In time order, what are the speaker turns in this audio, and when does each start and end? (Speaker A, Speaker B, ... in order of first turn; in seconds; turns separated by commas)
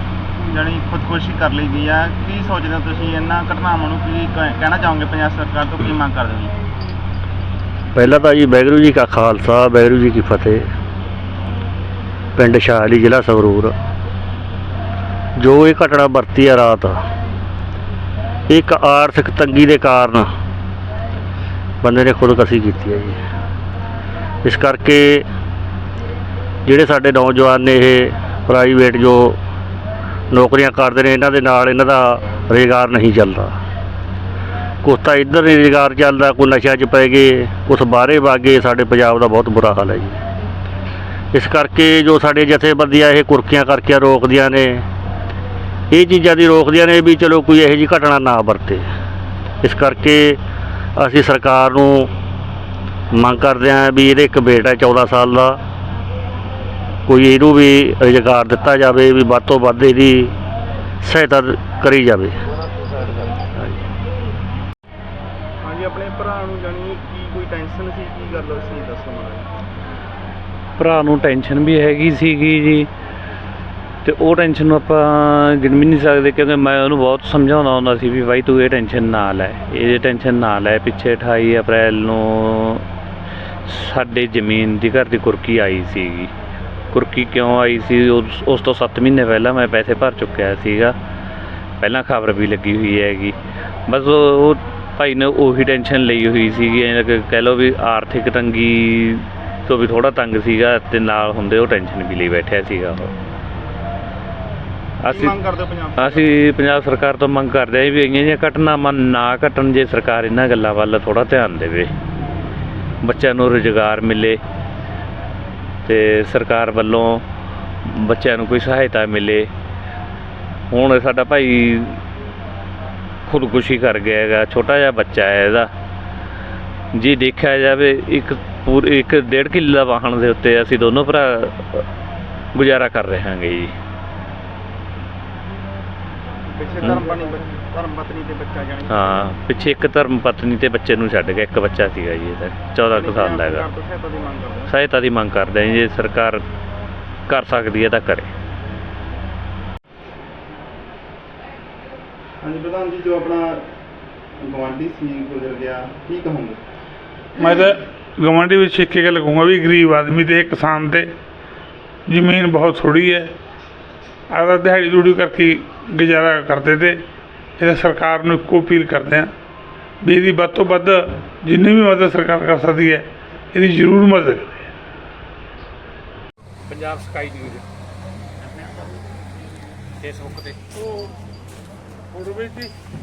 Speaker A: 0.5-6.5, Speaker B: 7.9-10.7, Speaker B: 12.3-13.7, Speaker B: 15.4-17.0, Speaker B: 18.5-20.3, Speaker B: 21.8-23.2, Speaker B: 24.4-25.2, Speaker B: 26.6-29.4, Speaker B: 30.3-33.5, Speaker B: 34.8-40.2, Speaker B: 41.3-44.8, Speaker B: 45.9-48.9, Speaker B: 49.6-50.4, Speaker B: 51.0-52.1, Speaker B: 53.1-55.6, Speaker B: 57.0-60.3, Speaker B: 61.0-62.4, Speaker A: 65.6-69.5, Speaker C: 70.8-72.9, Speaker C: 74.0-82.8, Speaker C: 83.6-86.3, Speaker C: 86.9-90.9, Speaker C: 91.8-93.3, Speaker C: 93.9-103.1, Speaker C: 105.0-105.3, Speaker A: 105.1-106.3, Speaker C: 106.0-111.9, Speaker C: 113.0-114.4, Speaker C: 115.8-117.2, Speaker C: 117.8-119.5, Speaker C: 120.7-122.0, Speaker C: 123.2-125.7, Speaker C: 126.9-131.8, Speaker C: 132.5-133.7, Speaker A: 136.5-139.2, Speaker C: 138.9-143.7, Speaker A: 142.9-144.7, Speaker C: 144.7-146.4, Speaker C: 147.3-148.3, Speaker A: 152.4-153.6, Speaker A: 154.4-156.6, Speaker D: 157.4-161.1, Speaker D: 162.1-163.3, Speaker D: 164.3-166.9, Speaker D: 167.6-169.3, Speaker D: 170.1-173.0, Speaker D: 173.6-174.6, Speaker C: 176.7-177.6, Speaker C: 180.1-180.5, Speaker D: 182.3-182.7